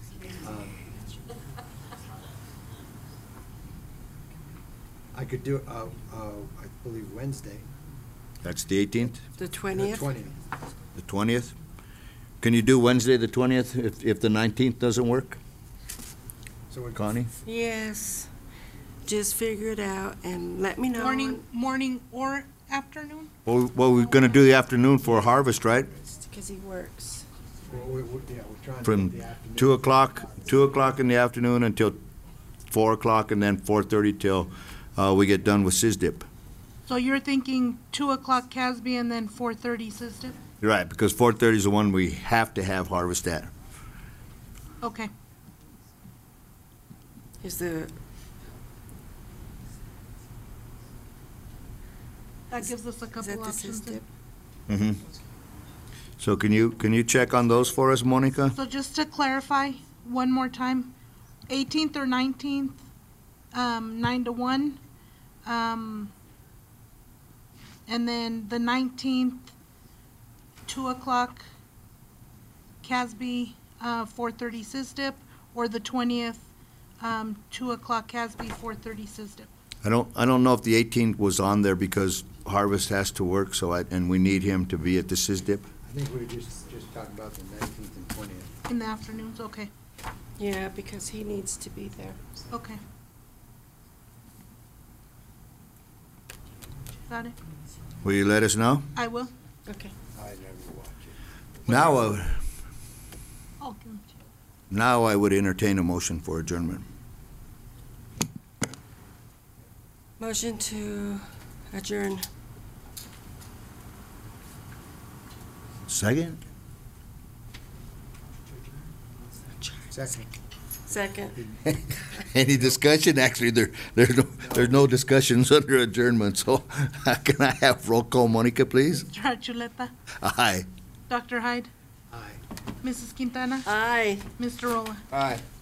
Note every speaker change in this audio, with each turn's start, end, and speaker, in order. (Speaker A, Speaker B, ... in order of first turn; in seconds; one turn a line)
Speaker A: 0.4-0.8
Speaker A: 5.1-7.7
Speaker B: 8.4-9.2
Speaker C: 9.4-10.1
Speaker A: 9.7-10.4
Speaker B: 11.0-11.5
Speaker B: 12.4-15.4
Speaker A: 16.7-17.1
Speaker B: 16.9-17.3
Speaker C: 17.5-18.3
Speaker C: 19.1-21.4
Speaker D: 20.9-23.3
Speaker B: 23.4-25.9
Speaker C: 26.2-27.3
Speaker A: 27.7-30.6
Speaker B: 28.9-32.0
Speaker B: 32.7-36.2
Speaker D: 36.9-40.4
Speaker B: 40.6-43.5
Speaker D: 44.8-45.1
Speaker C: 47.4-47.9
Speaker D: 52.5-54.0
Speaker C: 53.2-54.1
Speaker B: 54.7-55.0
Speaker B: 56.2-58.5
Speaker D: 58.5-60.9
Speaker D: 61.5-62.8
Speaker D: 63.5-64.8
Speaker D: 65.5-66.1
Speaker D: 67.9-69.5
Speaker D: 70.7-71.4
Speaker D: 72.8-76.5
Speaker D: 77.0-79.5
Speaker B: 79.8-85.7
Speaker A: 85.9-88.5
Speaker D: 88.7-89.7
Speaker C: 90.4-92.2
Speaker D: 92.5-92.8
Speaker D: 97.1-97.4
Speaker B: 98.0-98.9
Speaker D: 99.0-99.3
Speaker C: 99.7-99.9
Speaker A: 100.1-101.1
Speaker A: 101.7-102.0
Speaker B: 101.7-102.3
Speaker D: 103.6-104.2
Speaker B: 104.7-106.8
Speaker C: 110.2-112.2
Speaker B: 115.9-116.4
Speaker A: 119.9-120.3
Speaker C: 120.9-121.4
Speaker A: 121.4-121.8
Speaker B: 122.2-129.1
Speaker D: 128.9-129.9
Speaker B: 130.2-130.7
Speaker D: 131.1-131.7
Speaker D: 132.8-133.7
Speaker C: 133.7-134.3
Speaker D: 134.4-135.0
Speaker A: 135.1-135.4